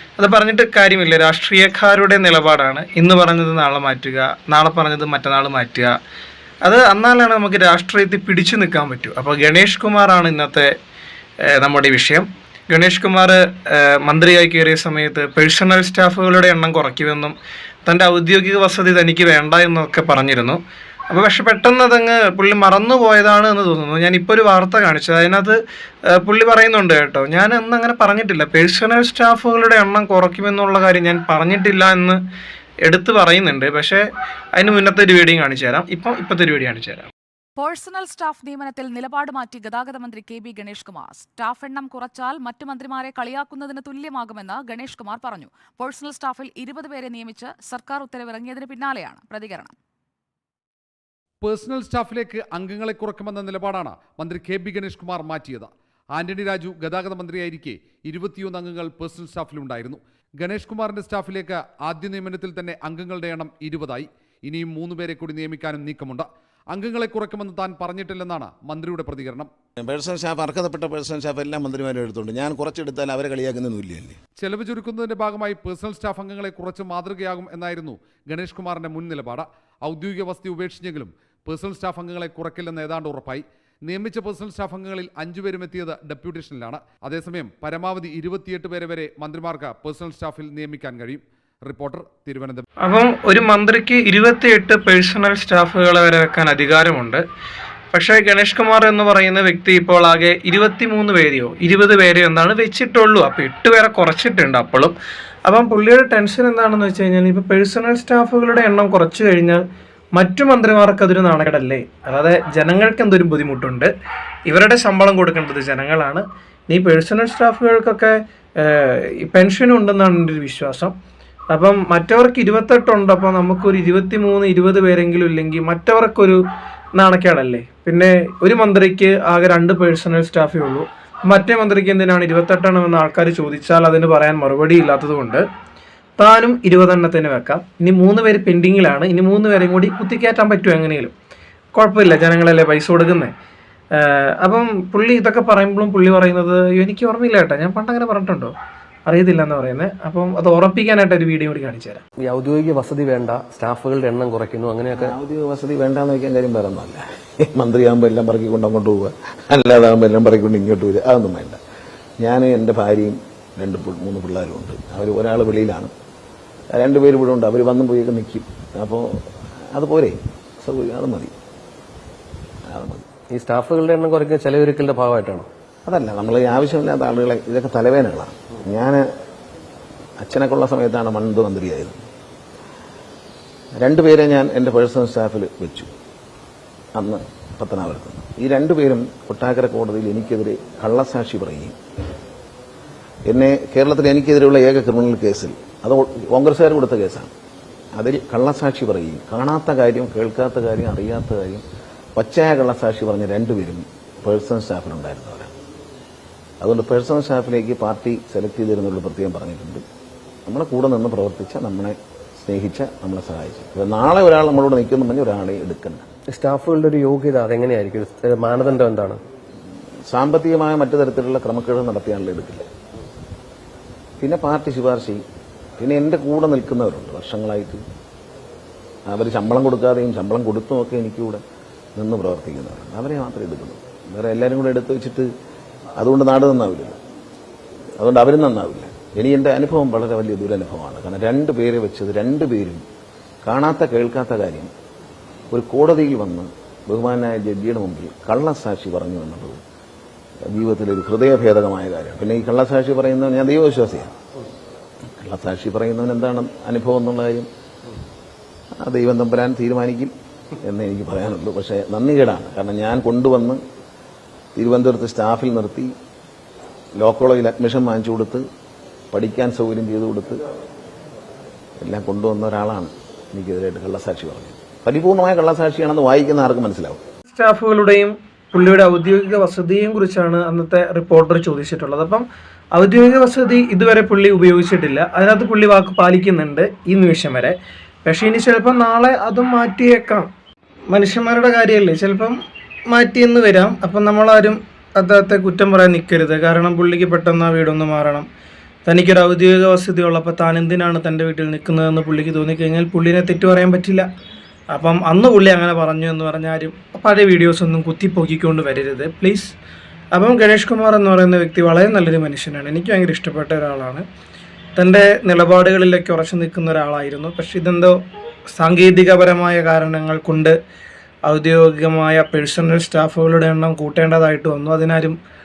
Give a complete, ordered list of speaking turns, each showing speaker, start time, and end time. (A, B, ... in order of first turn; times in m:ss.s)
0:00.2-0:06.0 A
0:06.6-0:10.7 A
0:11.4-0:17.4 A
0:17.9-0:20.6 A
0:21.1-0:32.2 A
0:32.8-0:37.1 A
0:37.6-0:49.7 B
0:51.4-1:09.5 C
1:09.8-1:14.2 D
1:14.4-1:32.6 C
1:32.8-1:37.2 A
1:37.9-1:45.0 A
1:45.5-1:49.6 A
1:50.2-1:53.9 A
1:54.5-2:00.9 A
2:01.5-2:06.4 A
2:07.0-2:15.4 A
2:16.2-2:21.1 A
2:21.8-2:23.3 A
2:24.0-2:28.5 A
2:29.1-2:32.0 A
2:32.2-2:35.1 E
2:34.9-2:41.6 D
2:42.2-2:45.9 D
2:46.8-2:51.3 D
2:52.7-2:53.0 D
2:53.3-2:55.5 E
2:55.9-2:59.0 D
3:00.2-3:02.0 D
3:03.8-3:05.9 D
3:07.0-3:11.8 D
3:13.3-3:17.3 D
3:18.0-3:21.6 D
3:22.2-3:25.5 D
3:26.6-3:29.8 D
3:30.5-3:36.0 D
3:36.3-3:39.2 E
3:40.1-3:42.7 D
3:44.2-3:45.2 D
3:45.8-3:47.8 D
3:49.1-3:51.4 D
3:52.0-3:55.3 D
3:56.0-3:57.0 D
3:58.0-4:02.8 D
4:03.4-4:04.7 D
4:05.5-4:09.6 D
4:10.5-4:14.1 D
4:15.2-4:17.5 D
4:18.8-4:23.6 D
4:24.6-4:25.9 D
4:27.0-4:28.4 D
4:29.1-4:30.4 D
4:31.8-4:37.0 D
4:37.3-4:50.3 A
4:50.9-4:52.4 A
4:52.9-4:58.3 A
4:58.9-5:04.1 A
5:04.7-5:09.6 A
5:10.1-5:14.0 A
5:14.8-5:18.0 A
5:18.5-5:20.6 A
5:21.3-5:25.2 A